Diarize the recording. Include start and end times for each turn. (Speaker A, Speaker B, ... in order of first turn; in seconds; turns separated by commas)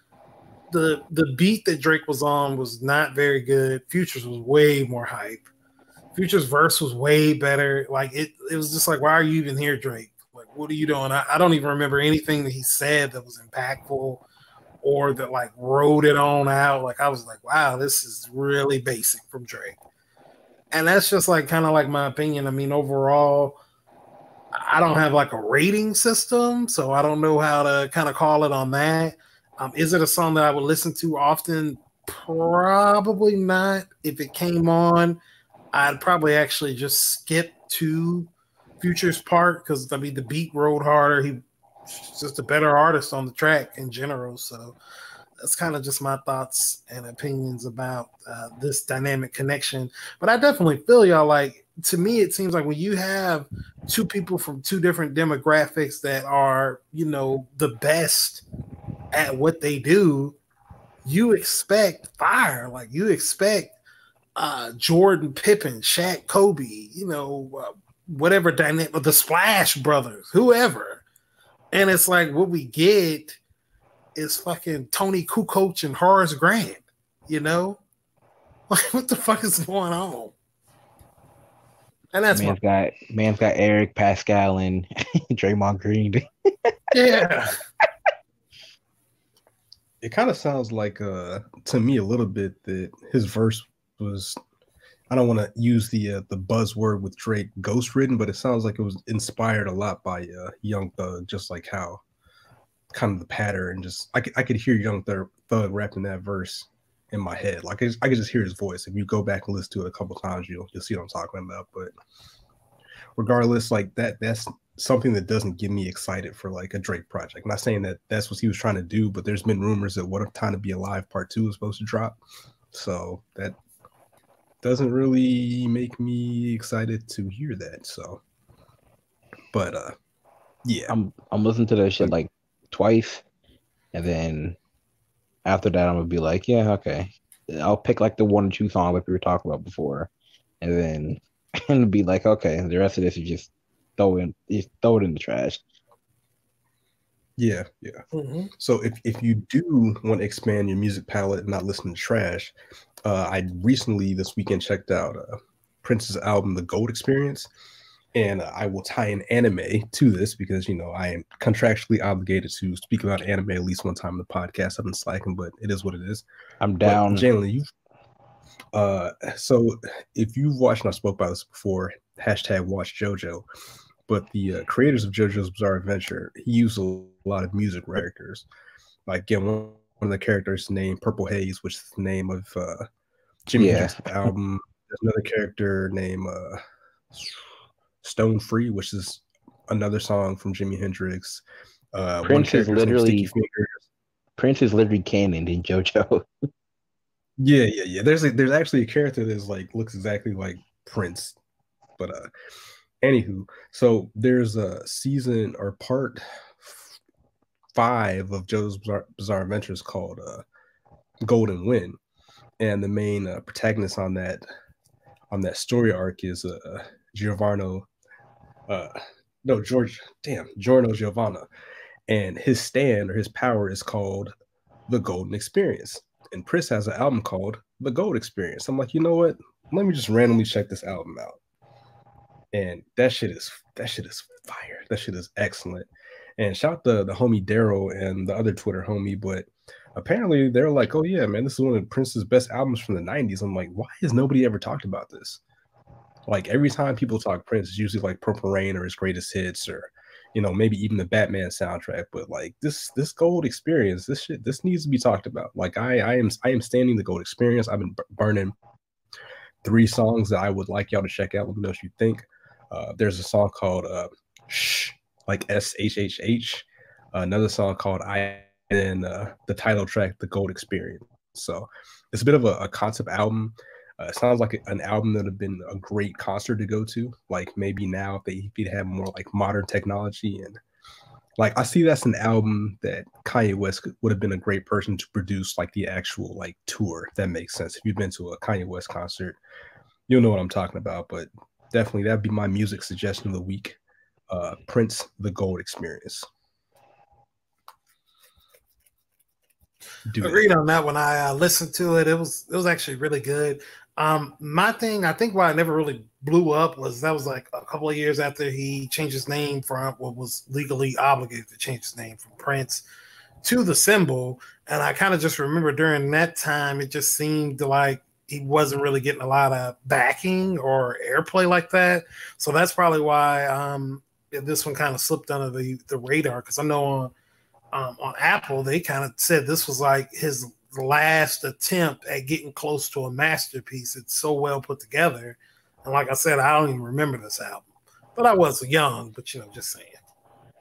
Speaker A: 0.7-5.5, Speaker A: 6.1-14.2, Speaker A: 14.8-19.8, Speaker A: 20.7-23.6, Speaker A: 24.5-35.2, Speaker A: 35.7-44.8, Speaker A: 45.4-58.4, Speaker A: 59.1-60.4, Speaker A: 61.0-63.7, Speaker A: 64.3-71.0, Speaker A: 71.7-73.4, Speaker A: 74.2-77.8, Speaker A: 78.7-80.3, Speaker A: 82.1-82.6, Speaker B: 82.3-86.7, Speaker A: 86.9-87.5, Speaker C: 90.0-94.4, Speaker C: 95.1-102.0, Speaker C: 102.9-111.9, Speaker C: 113.2-122.2, Speaker C: 122.7-123.6, Speaker C: 124.6-128.2, Speaker C: 129.5-129.9, Speaker C: 130.6-130.9, Speaker B: 130.9-133.2, Speaker B: 133.9-134.6, Speaker B: 135.4-140.1, Speaker B: 140.6-145.6, Speaker C: 147.4-148.0, Speaker A: 148.1-148.5, Speaker C: 148.6-157.5, Speaker C: 158.1-166.2, Speaker B: 166.6-167.2, Speaker C: 166.8-167.7, Speaker C: 168.7-173.4, Speaker C: 174.1-178.4, Speaker C: 179.1-182.9, Speaker C: 183.5-186.6, Speaker B: 183.6-184.0, Speaker C: 187.1-187.4, Speaker C: 188.0-193.8, Speaker B: 192.2-193.3, Speaker B: 194.4-196.2, Speaker C: 197.4-201.4, Speaker C: 202.0-202.3, Speaker C: 203.0-206.9, Speaker C: 207.7-210.4, Speaker C: 211.2-212.0, Speaker C: 212.6-214.4, Speaker C: 215.3-217.9, Speaker C: 218.7-221.5, Speaker C: 222.1-224.3, Speaker C: 224.9-231.4, Speaker C: 232.5-245.4, Speaker C: 246.3-258.5, Speaker C: 259.6-280.6, Speaker C: 281.4-289.4, Speaker C: 290.1-293.8, Speaker C: 294.3-296.2, Speaker C: 300.1-300.5, Speaker A: 300.2-312.8, Speaker A: 313.4-327.1, Speaker A: 327.7-340.0